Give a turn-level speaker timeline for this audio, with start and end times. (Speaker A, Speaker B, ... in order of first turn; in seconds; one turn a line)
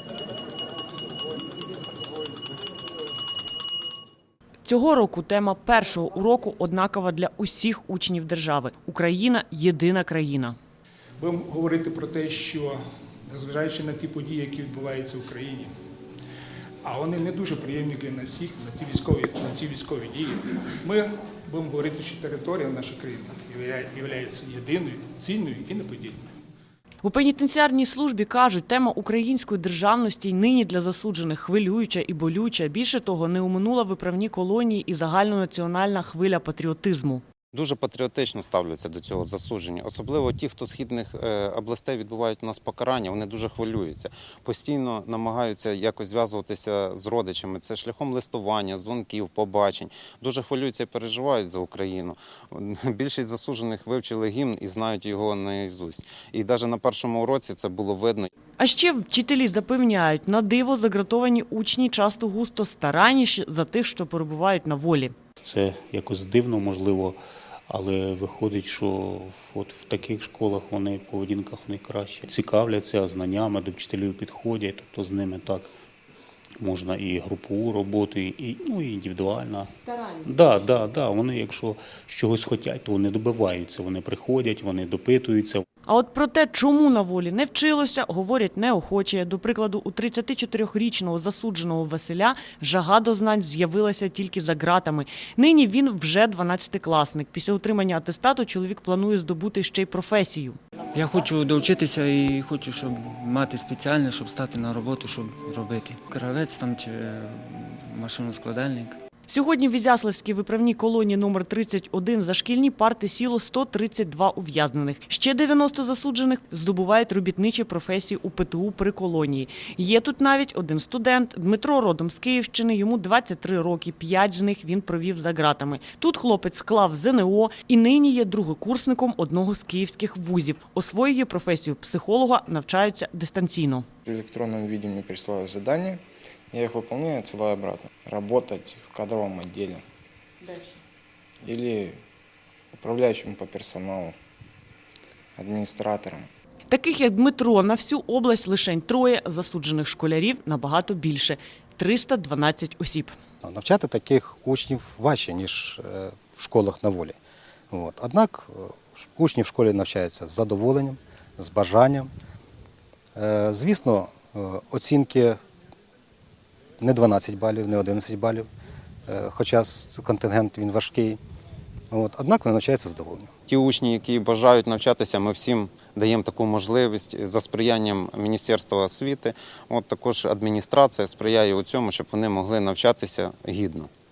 Speaker A: 4.6-10.6
Speaker B: 11.2-15.7
Speaker B: 16.8-26.3
Speaker A: 27.0-37.2
Speaker C: 37.5-58.3
Speaker A: 58.6-65.1
Speaker D: 65.4-67.2
Speaker D: 67.7-75.7
Speaker D: 76.6-79.7
Speaker D: 80.2-85.6
Speaker A: 85.8-100.6
Speaker E: 100.9-109.0
Speaker A: 109.3-133.8
Speaker F: 134.1-139.8
Speaker F: 141.4-142.0
Speaker F: 142.7-144.2
Speaker F: 145.4-146.3
Speaker A: 146.7-153.1
Speaker G: 153.4-157.1
Speaker G: 157.7-162.1
Speaker G: 163.1-165.4
Speaker G: 166.8-168.5
Speaker G: 169.1-171.2
Speaker G: 171.9-173.3
Speaker C: 173.5-183.9